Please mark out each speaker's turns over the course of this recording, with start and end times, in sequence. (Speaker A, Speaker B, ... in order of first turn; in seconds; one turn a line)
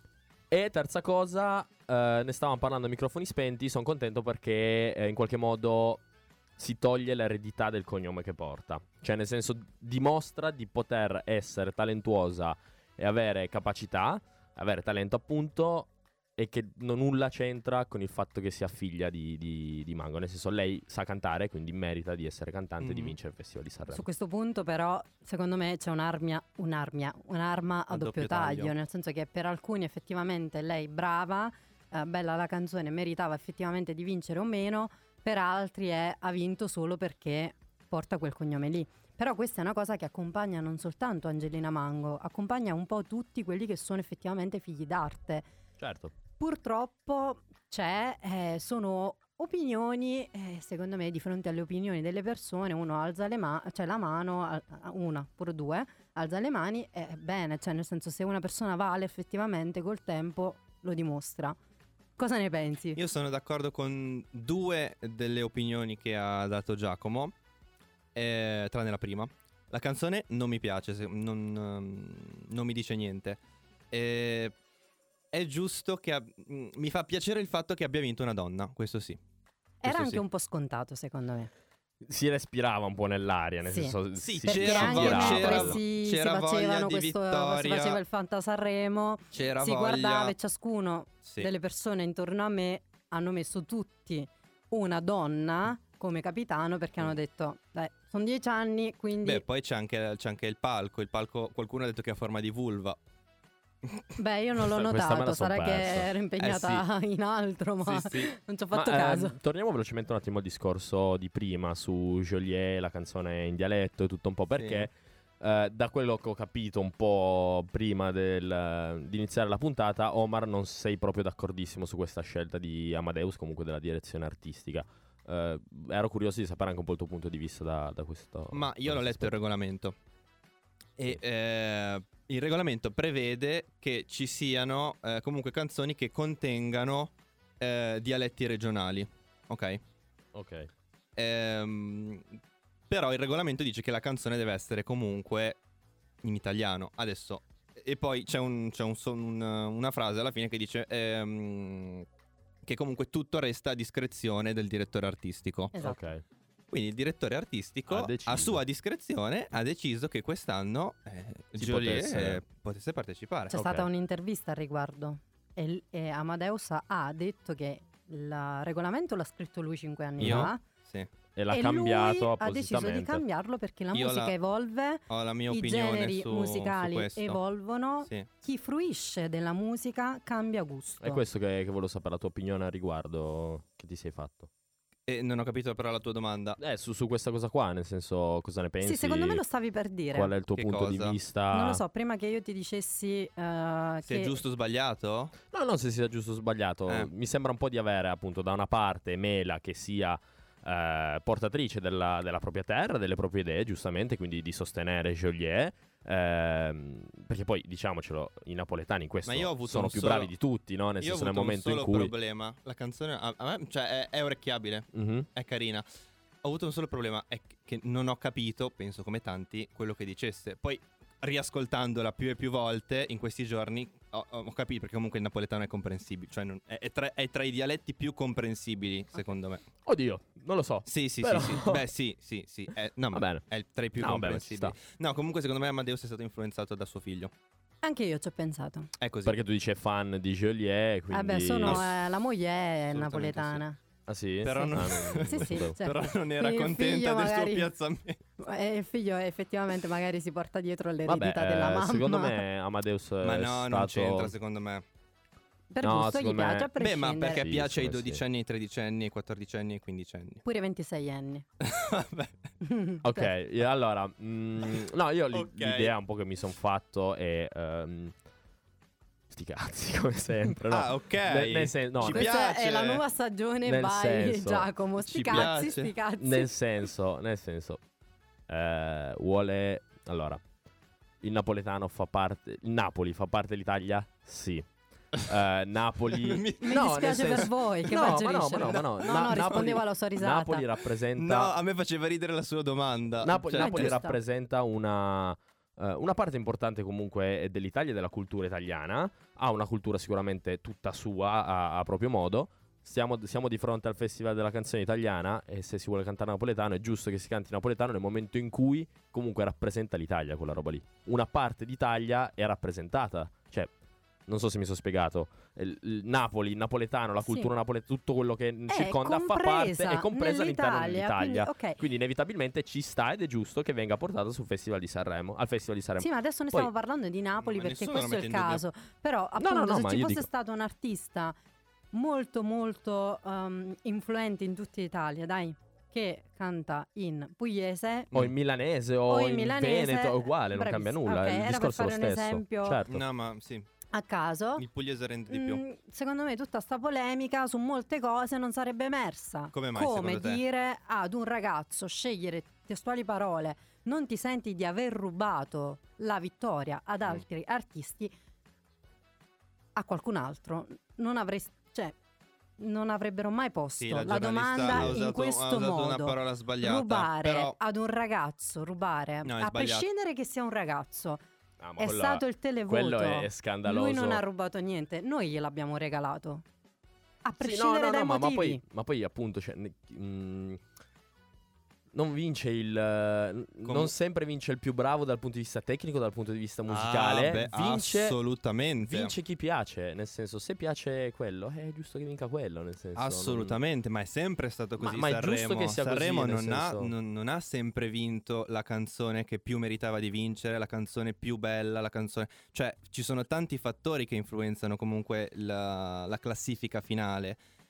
Speaker A: 0.5-6.0
Speaker A: 6.6-24.0
Speaker B: 22.8-23.1
Speaker C: 23.9-45.5
Speaker B: 27.9-28.7
Speaker A: 45.8-46.1
Speaker C: 46.4-61.6
Speaker C: 62.2-63.0
Speaker B: 63.0-67.3
Speaker B: 68.1-73.4
Speaker B: 73.9-74.5
Speaker B: 75.3-79.2
Speaker C: 79.8-81.5
Speaker B: 79.9-80.2
Speaker A: 82.1-85.8
Speaker C: 83.7-99.4
Speaker B: 84.2-88.0
Speaker B: 89.3-90.3
Speaker B: 91.2-91.5
Speaker B: 99.2-103.0
Speaker C: 104.2-109.4
Speaker A: 104.6-106.1
Speaker B: 106.4-106.8
Speaker B: 107.8-108.3
Speaker A: 108.7-129.3
Speaker B: 114.6-114.9
Speaker B: 128.5-130.0
Speaker B: 131.0-139.8
Speaker A: 140.3-140.7
Speaker B: 141.2-142.4
Speaker B: 142.9-145.6
Speaker B: 146.2-152.1
Speaker B: 152.6-155.7
Speaker A: 155.8-156.2
Speaker B: 156.7-163.6
Speaker A: 157.9-158.6
Speaker A: 161.6-162.4
Speaker A: 163.5-163.9
Speaker C: 163.5-170.6
Speaker A: 170.2-170.5
Speaker B: 170.2-171.1
Speaker A: 171.4-173.2
Speaker C: 171.5-181.2
Speaker B: 173.9-174.3
Speaker B: 175.1-177.4
Speaker A: 181.0-184.5
Speaker B: 185.1-186.6
Speaker A: 186.6-189.4
Speaker C: 188.8-190.3
Speaker A: 190.1-191.8
Speaker B: 190.6-191.2
Speaker C: 191.5-194.4
Speaker B: 194.1-195.3
Speaker A: 195.5-212.1
Speaker B: 209.3-210.3
Speaker B: 211.0-215.9
Speaker A: 214.9-215.3
Speaker B: 216.4-229.7
Speaker A: 229.8-231.9
Speaker B: 230.9-237.3
Speaker A: 233.1-233.4
Speaker A: 234.0-234.8
Speaker C: 237.8-238.9
Speaker B: 239.0-239.4
Speaker A: 239.2-241.8
Speaker C: 241.1-243.8
Speaker B: 242.9-243.6
Speaker A: 244.1-245.8
Speaker B: 244.4-248.2
Speaker C: 244.6-247.7
Speaker C: 248.4-252.4
Speaker A: 251.1-254.3
Speaker B: 253.2-254.8
Speaker C: 255.7-257.5
Speaker A: 255.8-256.7
Speaker B: 256.8-260.4
Speaker A: 257.2-258.2
Speaker C: 260.4-261.5
Speaker B: 261.6-262.4
Speaker C: 262.6-263.3
Speaker A: 263.0-268.1
Speaker B: 265.3-265.9
Speaker A: 269.3-272.3
Speaker B: 270.7-273.0
Speaker C: 272.1-276.5
Speaker A: 273.6-274.7
Speaker B: 275.1-275.9
Speaker A: 275.3-275.5
Speaker A: 276.2-277.8
Speaker A: 278.5-280.4
Speaker A: 281.2-291.5
Speaker B: 286.1-288.1
Speaker C: 286.6-290.7
Speaker B: 289.0-289.7
Speaker B: 291.2-294.0
Speaker A: 293.2-313.7
Speaker C: 293.5-294.2
Speaker A: 314.3-326.7
Speaker C: 318.7-321.8
Speaker C: 326.0-331.4
Speaker B: 327.4-328.6
Speaker A: 329.4-330.3
Speaker C: 331.9-338.1
Speaker A: 338.1-343.0
Speaker C: 339.1-342.8
Speaker B: 342.9-343.7
Speaker C: 343.9-344.6
Speaker B: 344.6-345.6
Speaker C: 345.3-358.1
Speaker B: 349.5-350.4
Speaker C: 359.8-361.9
Speaker C: 362.6-371.2
Speaker B: 363.8-367.6
Speaker B: 369.2-369.9
Speaker A: 371.6-374.2
Speaker C: 371.8-376.4
Speaker C: 377.2-378.6
Speaker A: 377.4-380.6
Speaker A: 381.9-388.2
Speaker B: 383.6-383.9
Speaker B: 386.7-389.1
Speaker A: 388.8-393.6
Speaker B: 393.0-407.4
Speaker A: 394.8-396.9